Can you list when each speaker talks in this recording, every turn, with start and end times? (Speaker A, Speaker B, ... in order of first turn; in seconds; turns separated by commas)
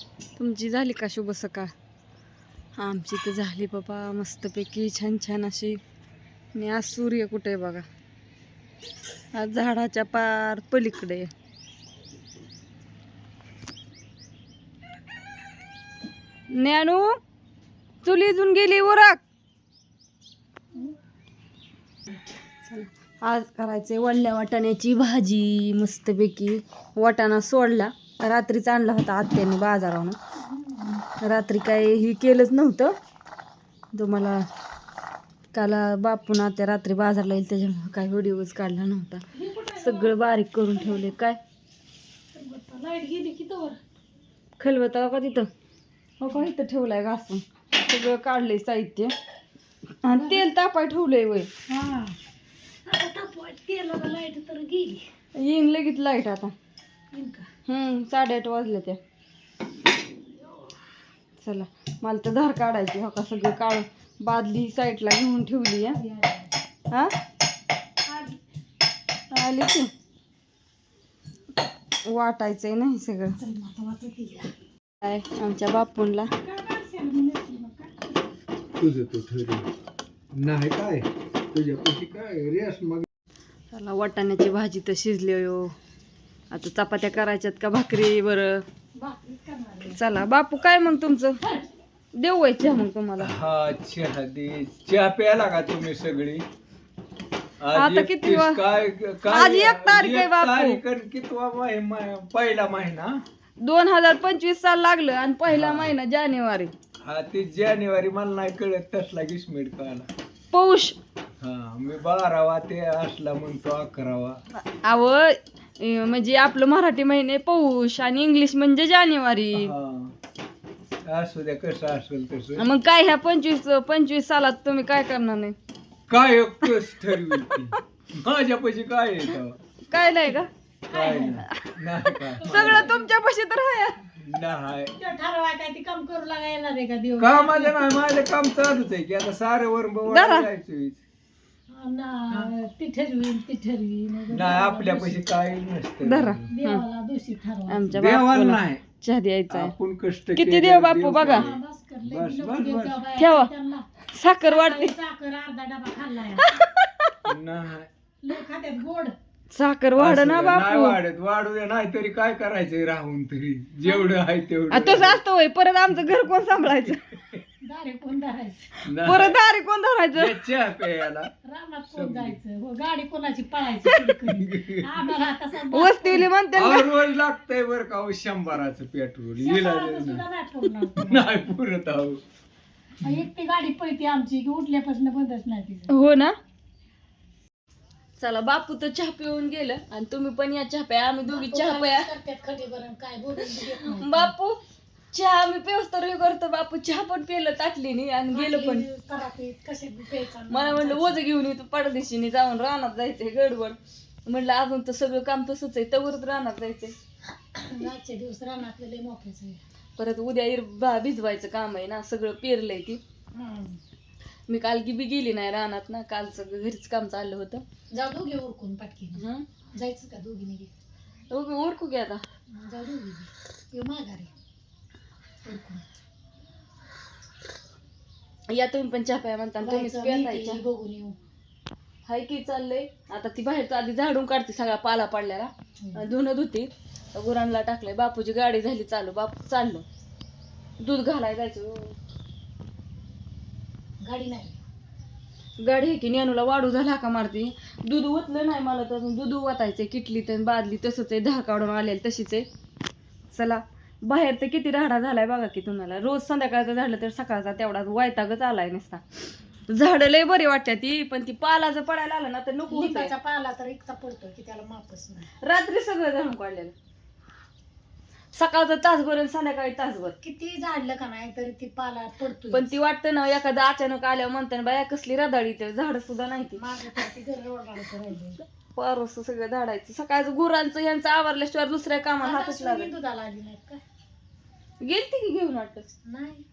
Speaker A: 0.3-1.7, Speaker A: 2.8-5.8, Speaker A: 6.5-7.8, Speaker A: 9.3-11.3, Speaker A: 16.5-17.1, Speaker A: 18.0-19.2, Speaker A: 22.6-30.2, Speaker B: 30.4-31.0, Speaker A: 31.2-32.9, Speaker A: 33.9-34.4, Speaker A: 35.5-39.2, Speaker B: 39.3-40.2, Speaker A: 39.8-41.4, Speaker B: 40.7-41.2, Speaker B: 42.3-43.8, Speaker A: 44.6-45.5, Speaker A: 46.2-49.1, Speaker A: 50.0-51.5, Speaker B: 50.1-50.5, Speaker B: 51.7-52.1, Speaker B: 52.9-55.0, Speaker A: 55.4-56.5, Speaker B: 57.1-57.5, Speaker A: 57.7-59.0, Speaker A: 61.4-66.0, Speaker B: 65.9-66.6, Speaker B: 68.0-68.4, Speaker A: 69.3-69.9, Speaker A: 72.1-73.4, Speaker B: 73.4-74.5, Speaker A: 75.0-76.3, Speaker B: 76.4-78.2, Speaker C: 78.8-79.7, Speaker C: 80.3-83.0, Speaker A: 83.7-85.7, Speaker A: 86.5-88.6, Speaker B: 88.9-90.0, Speaker A: 89.9-91.4, Speaker A: 92.2-93.3, Speaker C: 93.2-96.4, Speaker C: 97.6-103.2, Speaker A: 97.7-98.6, Speaker A: 99.3-100.8, Speaker A: 103.6-106.7, Speaker C: 105.5-105.9, Speaker C: 107.0-110.1, Speaker A: 110.5-111.0, Speaker C: 111.4-114.4, Speaker A: 114.5-119.7, Speaker C: 119.5-120.1, Speaker C: 121.0-122.7, Speaker A: 122.6-125.5, Speaker C: 126.1-129.6, Speaker A: 127.5-127.8, Speaker A: 129.9-130.5, Speaker B: 130.9-131.4, Speaker C: 130.9-132.9, Speaker A: 131.4-134.0, Speaker B: 132.4-133.1, Speaker C: 134.2-134.9, Speaker B: 134.9-137.8, Speaker C: 137.2-141.0, Speaker A: 140.1-140.5, Speaker B: 141.7-145.2, Speaker C: 144.3-146.5, Speaker A: 146.0-146.8, Speaker B: 146.5-148.0, Speaker A: 147.7-149.7, Speaker C: 147.9-148.8, Speaker C: 149.5-153.0, Speaker A: 150.3-151.4, Speaker B: 151.2-153.8, Speaker A: 153.2-153.5, Speaker A: 154.1-154.9, Speaker B: 154.4-156.5, Speaker A: 156.4-157.3, Speaker C: 157.2-157.9, Speaker B: 158.2-159.1, Speaker A: 159.5-161.0, Speaker C: 160.0-165.2, Speaker A: 164.7-167.0, Speaker C: 166.1-167.4, Speaker B: 167.6-168.6, Speaker C: 168.8-169.4, Speaker A: 169.0-170.3, Speaker C: 170.1-171.3, Speaker B: 171.4-176.3, Speaker C: 171.9-172.4, Speaker C: 174.2-175.1, Speaker A: 175.7-176.9, Speaker C: 176.5-180.2, Speaker B: 179.4-181.3, Speaker C: 181.0-182.2, Speaker B: 183.0-185.9, Speaker A: 185.9-186.3, Speaker A: 188.2-192.1, Speaker B: 191.3-194.3, Speaker A: 193.6-194.6, Speaker A: 195.1-198.8, Speaker B: 198.3-201.2, Speaker A: 200.5-206.9, Speaker B: 207.5-209.6, Speaker A: 210.0-213.0, Speaker B: 213.3-213.8, Speaker A: 214.5-217.6, Speaker B: 217.9-219.2, Speaker A: 219.2-219.4, Speaker B: 219.7-220.7, Speaker A: 221.3-222.2, Speaker B: 222.5-224.3, Speaker B: 225.4-225.8, Speaker A: 228.5-230.6, Speaker B: 229.6-231.2, Speaker A: 232.1-239.8, Speaker B: 235.8-236.1, Speaker A: 240.8-241.9, Speaker B: 244.0-244.6, Speaker A: 245.6-252.4, Speaker A: 253.3-259.0, Speaker A: 259.7-263.1, Speaker B: 262.7-265.3, Speaker A: 265.4-266.7, Speaker A: 268.3-270.1, Speaker B: 270.2-272.7, Speaker A: 272.5-276.6, Speaker B: 276.6-278.4, Speaker A: 278.7-282.9, Speaker B: 282.2-283.8, Speaker A: 284.8-285.9, Speaker B: 286.0-286.4